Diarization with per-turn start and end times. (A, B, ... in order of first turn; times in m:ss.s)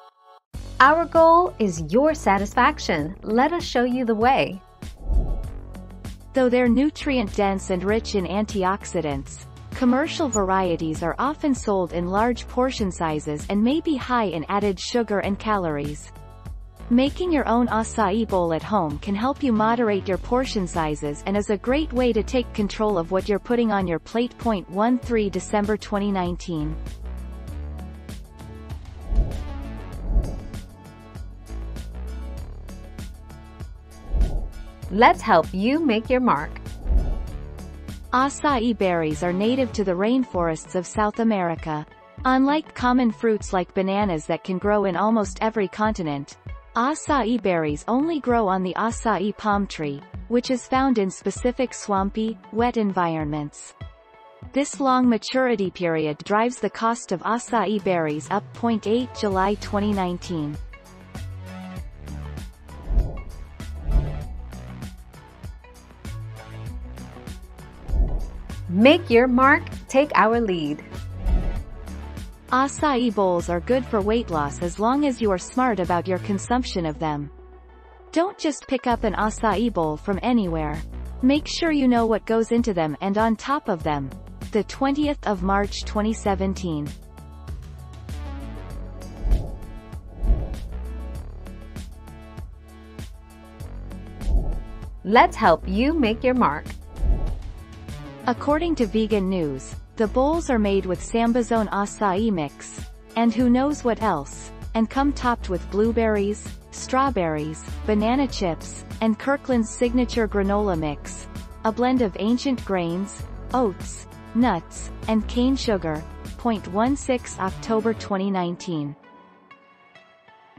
0:00.8-0:04.6 A
0:06.3-0:16.1 B
0:16.9-0:26.8 B
0:34.9-0:36.6 A
0:38.1-0:53.7 B
0:54.5-1:00.6 B
1:08.7-1:10.9 A
1:12.5-1:17.3 B
1:18.1-1:26.9 B
1:35.0-1:36.8 A
1:38.3-1:59.0 B